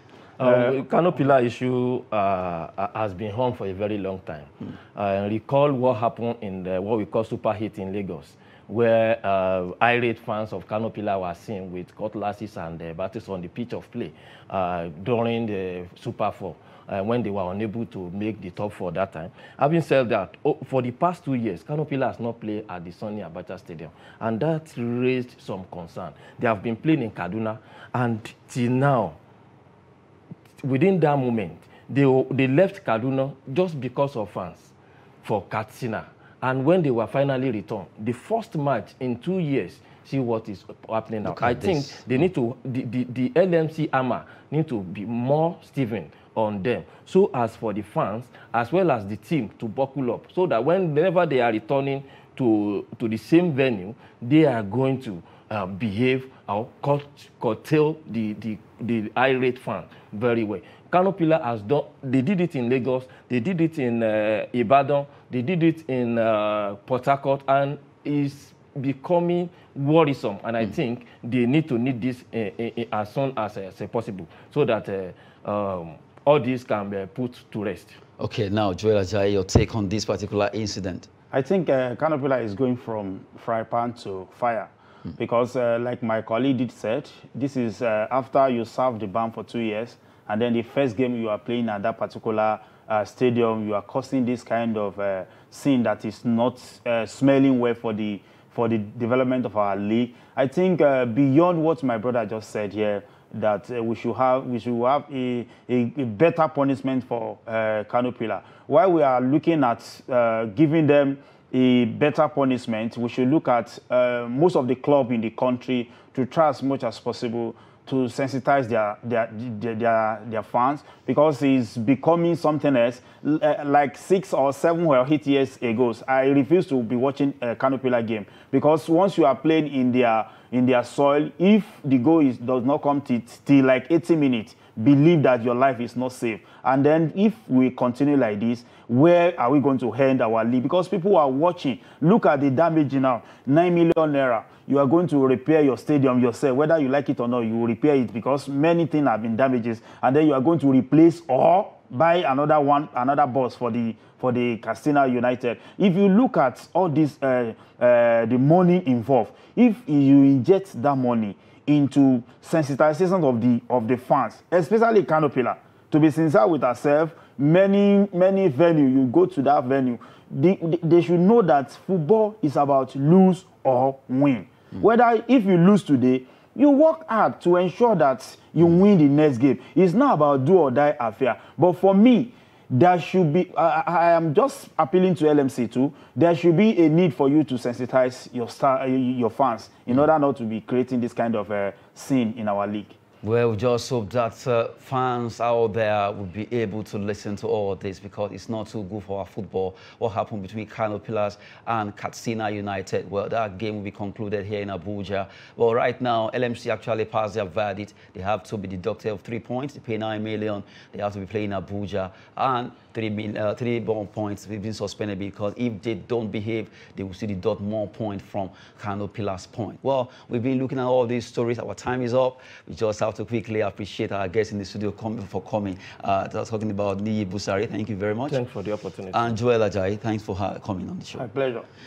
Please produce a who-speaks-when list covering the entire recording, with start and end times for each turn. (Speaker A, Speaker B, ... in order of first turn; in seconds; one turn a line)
Speaker A: 0.4-29.2
Speaker B: 0.4-0.8
Speaker A: 30.6-78.0
Speaker C: 41.2-42.0
Speaker C: 78.2-81.1
Speaker B: 81.3-192.9
Speaker C: 193.2-228.4
Speaker A: 228.3-229.3
Speaker C: 229.1-231.3
Speaker B: 231.2-231.7